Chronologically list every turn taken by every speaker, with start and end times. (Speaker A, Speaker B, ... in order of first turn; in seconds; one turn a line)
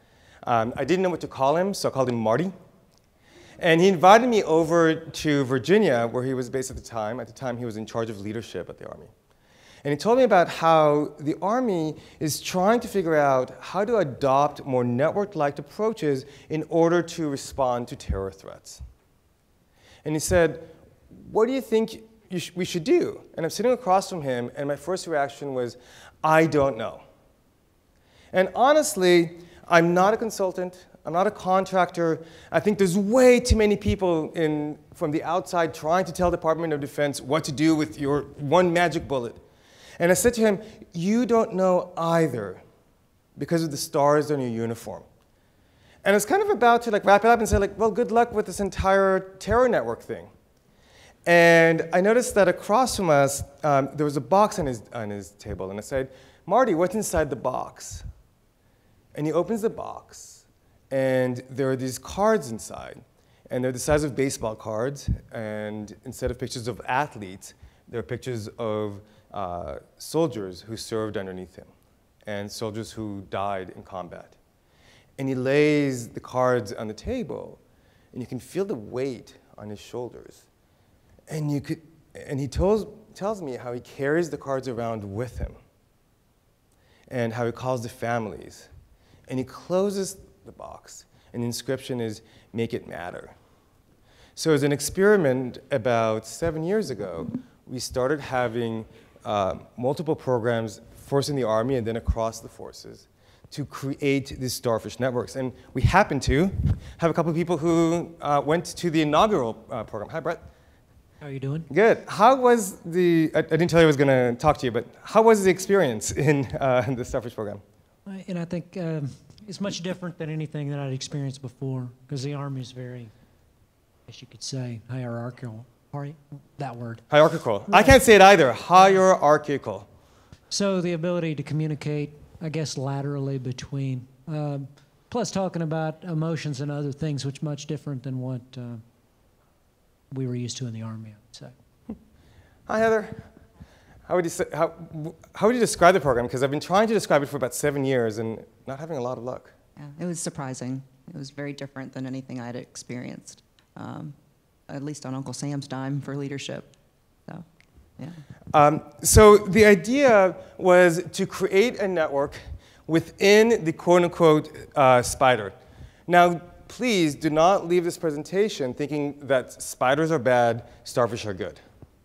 Speaker A: 0.4-2.5
Speaker A: 3.6-9.1
Speaker A: 9.8-18.8
Speaker A: 20.0-27.0
Speaker A: 28.3-39.4
Speaker A: 40.0-42.6
Speaker A: 43.4-45.0
Speaker A: 46.0-50.3
Speaker A: 51.2-58.0
Speaker A: 59.1-71.7
Speaker A: 72.2-74.3
Speaker A: 75.2-77.6
Speaker A: 78.1-80.4
Speaker A: 81.3-85.6
Speaker A: 87.1-88.7
Speaker A: 89.3-93.3
Speaker A: 94.3-110.4
Speaker B: 111.2-111.7
Speaker A: 111.7-117.6
Speaker B: 118.1-123.1
Speaker B: 124.1-127.0
Speaker A: 127.1-129.8
Speaker B: 127.7-128.0
Speaker B: 130.5-138.8
Speaker B: 140.1-141.5
Speaker A: 142.7-143.3
Speaker A: 144.1-149.5
Speaker C: 149.8-154.1
Speaker C: 154.7-156.7
Speaker A: 158.5-165.5
Speaker A: 166.1-171.6